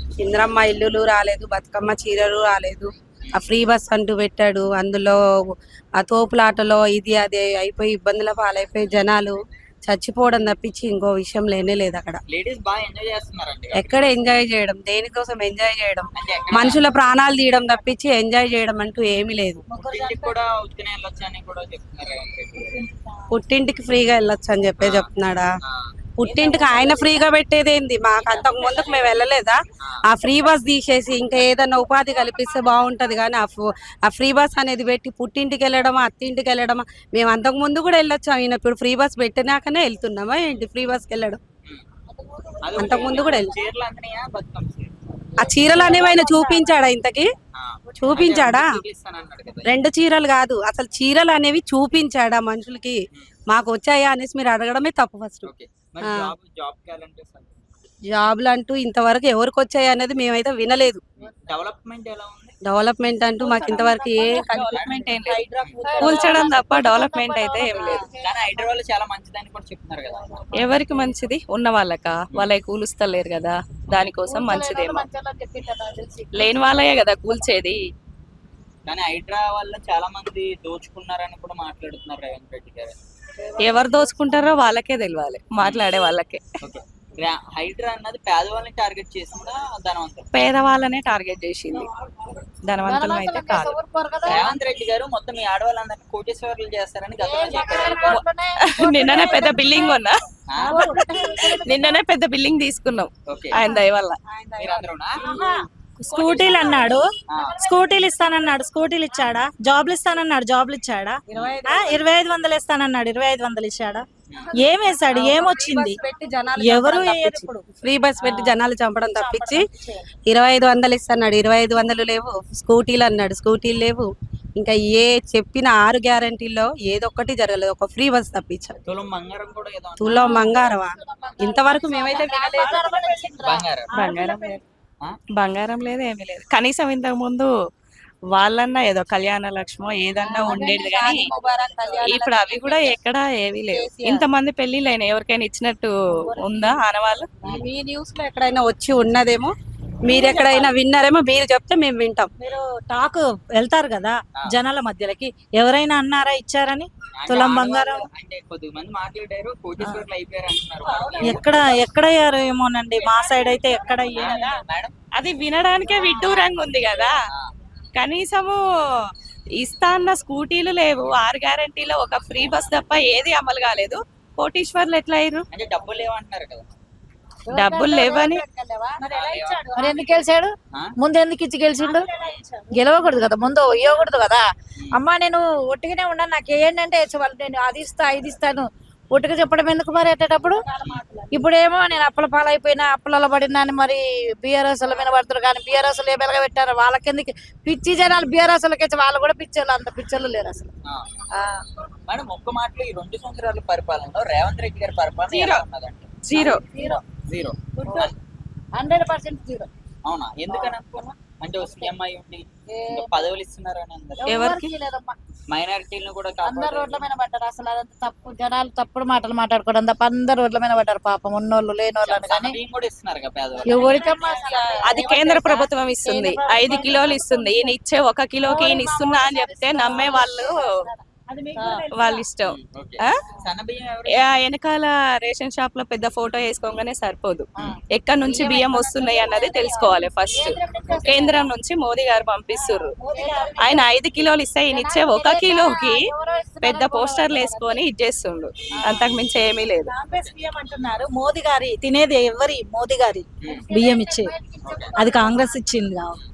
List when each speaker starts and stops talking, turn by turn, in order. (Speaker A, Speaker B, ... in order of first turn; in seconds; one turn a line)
Speaker A: 0.2-12.2
Speaker B: 12.3-14.1
Speaker A: 13.8-19.6
Speaker B: 16.1-16.9
Speaker C: 19.7-20.4
Speaker B: 19.7-22.8
Speaker A: 23.3-25.5
Speaker B: 24.8-25.1
Speaker A: 26.2-41.4
Speaker C: 26.3-27.2
Speaker B: 28.3-29.1
Speaker C: 42.1-43.7
Speaker B: 42.6-45.0
Speaker A: 42.7-43.5
Speaker C: 45.4-46.7
Speaker A: 45.4-47.3
Speaker B: 47.5-49.8
Speaker A: 48.0-48.7
Speaker A: 49.7-53.0
Speaker A: 53.5-55.5
Speaker B: 55.5-57.7
Speaker A: 58.1-61.0
Speaker B: 61.2-62.6
Speaker A: 62.7-64.9
Speaker C: 63.4-68.4
Speaker B: 63.6-64.0
Speaker D: 64.3-65.4
Speaker B: 64.5-65.0
Speaker B: 65.6-66.2
Speaker A: 66.0-66.3
Speaker D: 66.0-68.1
Speaker B: 68.2-70.5
Speaker C: 70.4-71.0
Speaker D: 70.5-75.1
Speaker C: 74.3-76.5
Speaker B: 76.4-76.9
Speaker D: 76.4-77.8
Speaker B: 78.9-83.0
Speaker D: 83.6-86.4
Speaker C: 83.7-84.2
Speaker B: 85.6-85.8
Speaker B: 86.6-90.3
Speaker D: 90.3-91.9
Speaker D: 92.7-93.7
Speaker C: 92.8-94.6
Speaker B: 94.2-98.2
Speaker C: 97.2-100.0
Speaker D: 97.8-100.2
Speaker B: 100.5-100.9
Speaker C: 100.6-102.0
Speaker E: 100.8-101.2
Speaker D: 100.8-104.2
Speaker B: 103.3-103.6
Speaker B: 104.6-105.2
Speaker E: 105.2-116.0
Speaker C: 106.1-109.3
Speaker B: 107.3-107.6
Speaker A: 111.3-112.1
Speaker B: 111.3-111.6
Speaker B: 114.3-114.5
Speaker A: 115.1-119.7
Speaker E: 116.6-117.6
Speaker D: 118.3-118.5
Speaker C: 119.2-119.9
Speaker A: 120.3-128.8
Speaker B: 128.9-130.7
Speaker A: 130.0-133.2
Speaker C: 130.1-133.7
Speaker B: 131.2-132.2
Speaker B: 133.4-133.9
Speaker D: 133.9-134.6
Speaker E: 133.9-134.6
Speaker D: 135.4-137.5
Speaker D: 138.3-141.3
Speaker A: 140.2-143.0
Speaker C: 140.4-142.2
Speaker D: 142.0-147.3
Speaker A: 143.7-144.2
Speaker C: 146.5-146.7
Speaker A: 147.4-149.5
Speaker A: 150.1-152.3
Speaker C: 150.1-150.7
Speaker E: 152.4-158.1
Speaker B: 157.2-161.5
Speaker C: 160.8-161.6
Speaker E: 161.2-164.6
Speaker C: 163.0-164.5
Speaker B: 164.1-164.9
Speaker D: 165.2-167.2
Speaker C: 165.9-166.5
Speaker D: 168.0-168.6
Speaker D: 169.6-175.5
Speaker B: 175.5-176.7
Speaker C: 177.5-184.4
Speaker D: 177.5-178.4
Speaker B: 179.0-180.1
Speaker B: 182.1-182.4
Speaker C: 184.9-200.7
Speaker C: 201.4-201.7
Speaker B: 202.1-206.2
Speaker D: 205.3-205.6
Speaker D: 206.2-206.6
Speaker C: 206.3-207.0
Speaker B: 207.3-208.2
Speaker C: 207.8-208.1
Speaker C: 208.8-209.7
Speaker B: 210.1-214.4
Speaker C: 210.5-210.7
Speaker C: 211.6-211.9
Speaker C: 212.7-213.3
Speaker C: 214.2-215.2
Speaker D: 214.3-214.7
Speaker B: 215.5-217.1
Speaker C: 216.4-222.6
Speaker B: 222.1-224.1
Speaker C: 223.7-227.7
Speaker E: 223.8-224.6
Speaker D: 224.8-230.6
Speaker C: 228.4-231.1
Speaker E: 229.8-230.1
Speaker E: 231.3-232.2
Speaker C: 231.6-231.9
Speaker D: 231.9-233.2
Speaker B: 232.5-234.2
Speaker D: 234.2-242.9
Speaker C: 237.6-241.5
Speaker E: 243.0-243.7
Speaker C: 243.1-243.9
Speaker D: 243.6-246.1
Speaker C: 244.7-247.8
Speaker D: 246.6-249.9
Speaker C: 248.8-249.1
Speaker E: 249.9-254.3
Speaker B: 253.4-253.7
Speaker C: 253.5-255.6
Speaker B: 254.6-255.0
Speaker E: 255.0-256.2